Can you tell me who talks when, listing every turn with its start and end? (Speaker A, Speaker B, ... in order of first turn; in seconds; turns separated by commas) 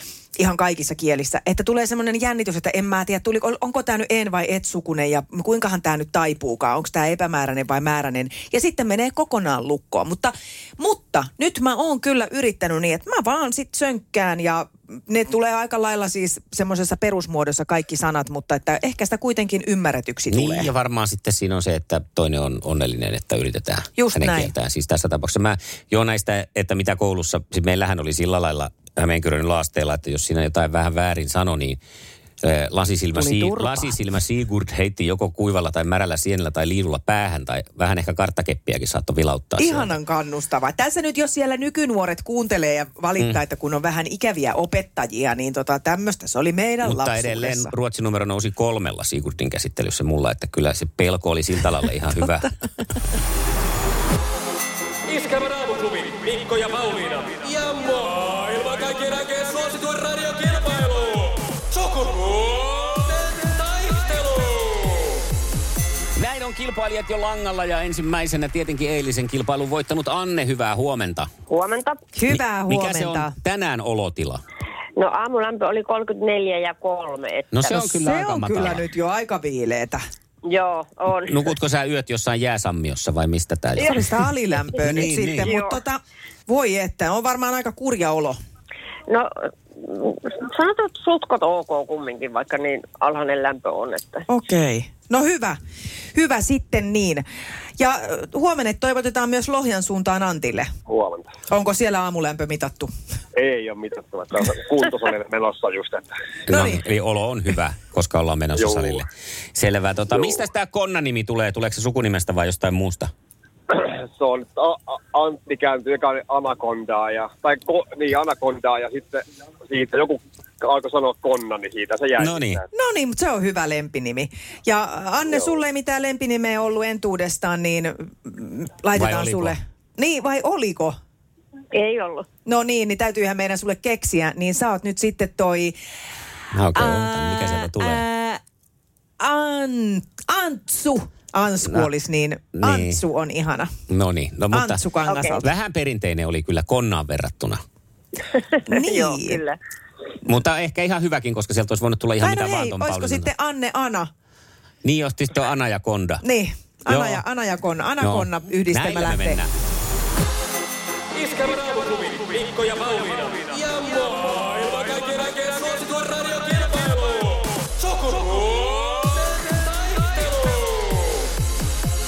Speaker A: 0.4-20.7, Speaker B: 20.3-31.8, Speaker A: 24.0-24.5, Speaker B: 32.4-39.9, Speaker A: 33.1-33.9, Speaker A: 39.6-47.7, Speaker B: 46.8-52.5, Speaker C: 55.1-65.2, Speaker B: 66.2-71.3, Speaker D: 71.5-72.0, Speaker A: 72.1-73.3, Speaker B: 72.3-74.4, Speaker D: 75.0-77.5, Speaker B: 77.5-78.8, Speaker A: 77.7-80.0, Speaker D: 80.5-81.4, Speaker B: 81.2-84.0, Speaker D: 83.8-84.0, Speaker A: 83.8-88.4, Speaker B: 84.8-85.5, Speaker D: 85.4-85.8, Speaker D: 89.1-94.2, Speaker A: 94.3-95.6, Speaker A: 96.1-97.2, Speaker A: 97.8-100.7, Speaker E: 100.9-101.3, Speaker A: 101.5-102.9, Speaker E: 103.3-106.1, Speaker B: 106.5-113.1, Speaker A: 106.5-106.8, Speaker E: 108.5-109.0, Speaker E: 113.7-122.6, Speaker B: 122.2-122.6, Speaker A: 122.7-130.9, Speaker B: 128.9-129.5, Speaker D: 131.7-132.2, Speaker A: 132.4-135.7, Speaker B: 136.5-138.0, Speaker A: 136.7-138.4, Speaker A: 139.2-143.7, Speaker B: 142.6-143.0, Speaker B: 143.9-144.8, Speaker A: 144.5-145.5, Speaker D: 145.1-145.4, Speaker B: 145.4-147.6, Speaker D: 148.2-149.6, Speaker A: 148.7-149.4, Speaker B: 150.2-153.3, Speaker A: 152.2-154.1, Speaker B: 154.8-156.2, Speaker A: 156.2-159.4, Speaker B: 156.9-157.2, Speaker B: 158.0-159.5, Speaker C: 161.1-171.1